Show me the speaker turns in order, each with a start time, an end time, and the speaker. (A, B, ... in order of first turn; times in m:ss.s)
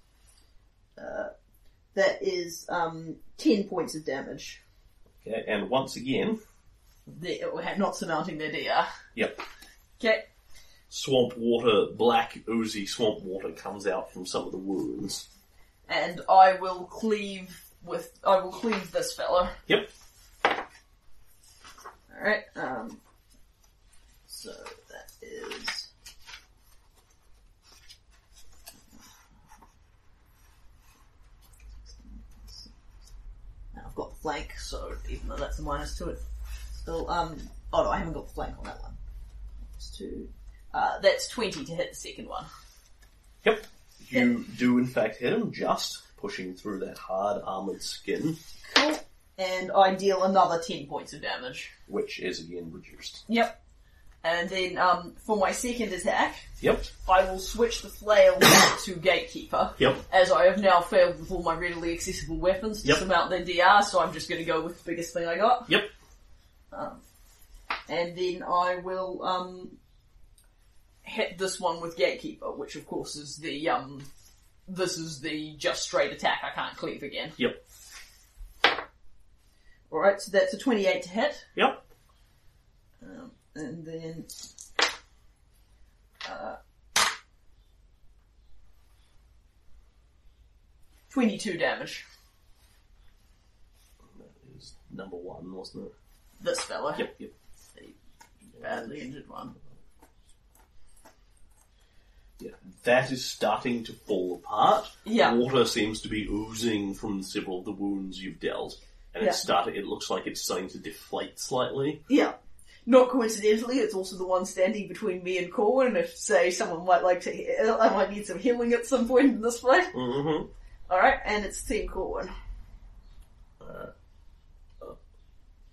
0:01.0-0:01.3 A
0:01.9-0:04.6 A
0:05.2-0:06.4 B
0:07.1-0:08.9 A
0:09.2-0:09.4 B
0:10.0-0:10.2 A
0:10.9-0:15.2 B
0:15.9-0:19.6 A
0:22.1-0:23.0 A
0:24.3-0:25.9 A
0:31.8-0:32.7 A
0:33.7-0:36.2 A
0:36.8-0:39.0 A
0:39.7-0:42.5 A
0:43.4-0:48.4 B
0:48.6-0:51.7 A
0:51.9-0:53.2 B
0:53.3-0:53.6 A
0:54.2-0:56.5 A
0:56.6-0:56.9 B
0:57.0-1:05.8 A
0:59.8-1:00.0 B
1:06.7-1:07.0 A
1:07.9-1:09.8 A
1:11.0-1:14.1 A
1:14.7-1:17.4 A
1:19.9-1:21.5 A
1:21.6-1:21.8 B
1:23.0-1:24.3 A
1:26.2-1:26.6 A
1:31.1-1:32.0 A
1:34.1-1:35.9 B
1:36.4-1:37.1 A
1:37.0-1:37.3 B
1:38.5-1:39.6 A
1:42.4-1:52.0 B
1:45.0-1:45.4 A
1:52.1-1:52.4 A
1:52.9-2:00.0 A
1:59.9-2:00.5 B
2:00.9-2:02.3 A
2:03.6-2:03.9 B